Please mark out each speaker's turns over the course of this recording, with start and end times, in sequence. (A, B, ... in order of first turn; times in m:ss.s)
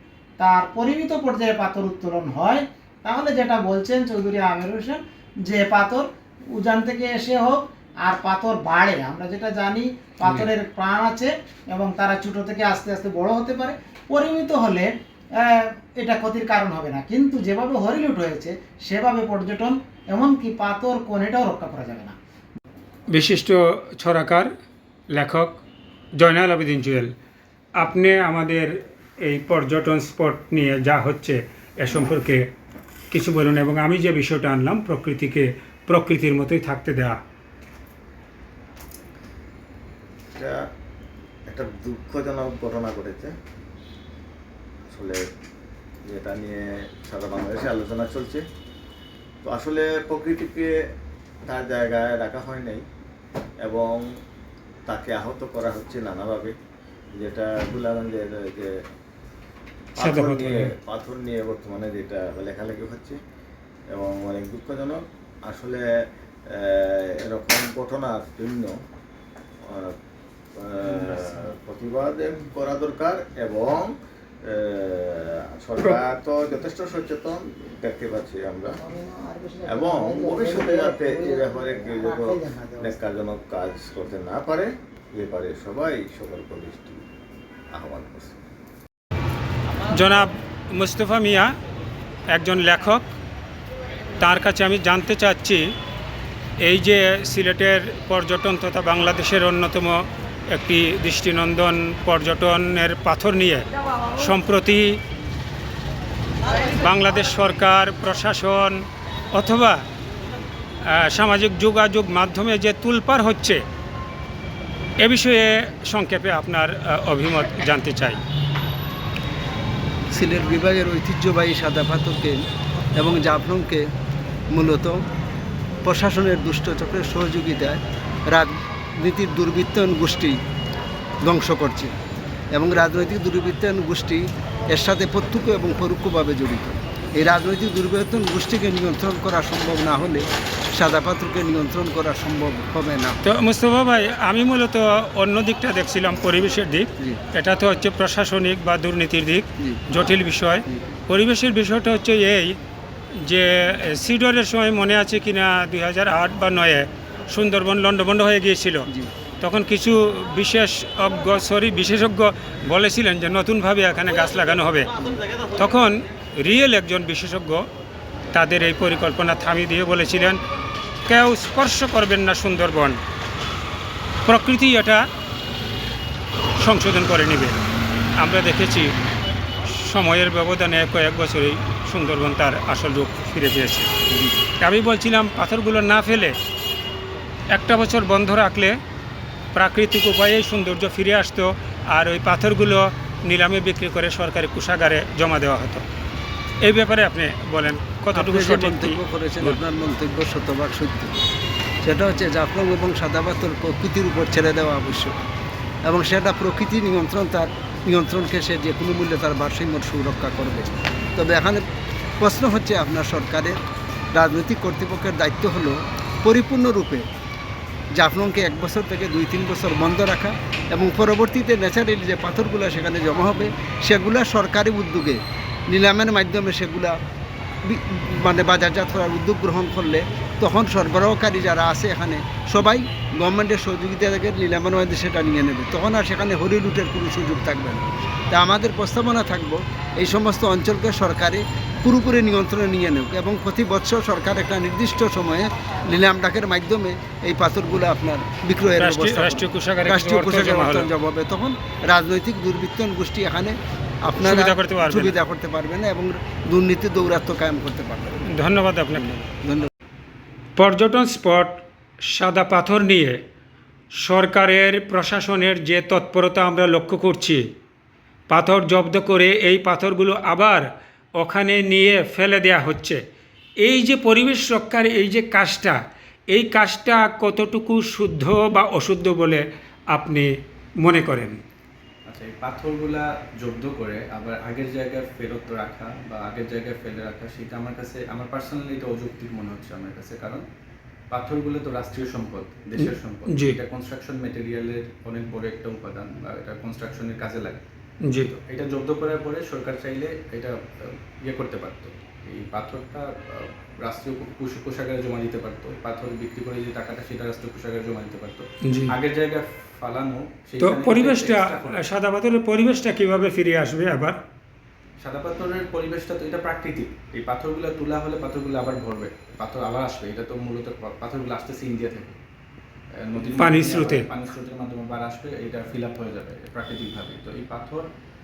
0:00.4-0:06.0 A
0:06.6-0:22.1 A
0:23.1-0:24.5 B
0:25.1-0:25.6 B
0:26.2-0:27.1 B
0:27.8-0:28.7 B
0:29.2-0:32.4 B
0:33.1-0:37.2 B
0:40.3-0:40.6 C
0:41.5-0:43.3 C
0:44.9-0:45.2 C
0:46.1-0:48.4 C
0:49.4-0:50.7 C
0:51.5-0:52.8 C
0:53.6-0:54.0 C
0:54.8-0:56.5 C
0:57.1-0:58.8 C
1:00.0-1:03.2 C
1:00.0-1:00.7 B
1:03.9-1:05.8 C
1:06.5-1:08.8 C
1:09.6-1:09.9 C
1:10.6-1:13.9 C
1:14.4-1:18.8 C
1:18.8-1:23.0 A
1:19.7-1:27.0 C
1:27.7-1:28.4 C
1:29.9-1:31.5 B
1:32.3-1:33.0 B
1:34.2-1:35.6 B
1:36.6-1:43.6 B
1:44.2-1:44.9 B
1:46.7-1:48.8 B
1:49.3-1:49.8 B
1:51.0-1:53.6 B
1:55.0-1:58.2 B
2:00.1-2:02.4 D
2:03.0-2:03.8 D
2:04.5-2:05.0 D
2:05.8-2:10.4 D
2:11.2-2:11.9 D
2:12.5-2:23.2 D
2:23.2-2:32.5 B
2:33.2-2:38.9 B
2:39.4-2:44.9 B
2:45.4-2:47.6 B
2:48.3-2:50.4 B
2:51.1-2:53.0 B
2:54.2-2:55.0 B
2:56.6-2:57.6 B
2:58.2-2:58.9 B
2:59.7-3:03.9 B
3:04.1-3:04.4 D
3:04.6-3:06.3 B
3:07.5-3:08.7 B
3:09.5-3:15.8 B
3:16.6-3:19.6 B
3:18.1-3:21.2 D
3:21.8-3:25.1 D
3:25.8-3:31.6 D
3:32.2-3:33.6 D
3:34.1-3:37.0 D
3:38.0-3:47.0 D
3:47.6-4:13.6 D
4:08.8-4:10.9 B
4:14.1-4:18.3 D
4:14.2-4:15.1 B
4:18.3-4:19.1 B
4:19.0-4:19.7 D
4:20.6-4:23.2 B
4:24.0-4:27.4 B
4:28.3-4:30.6 B
4:31.2-4:33.0 B
4:33.6-4:35.8 B
4:36.3-4:40.3 B
4:40.8-4:41.4 B
4:42.1-4:50.4 E
4:51.1-4:57.6 E
4:52.8-4:53.6 B
4:58.0-4:58.3 B
4:58.3-5:11.8 E
5:08.6-5:08.9 B
5:10.6-5:14.2 B
5:15.0-5:22.2 E
5:23.0-5:27.9 E
5:23.4-5:24.0 B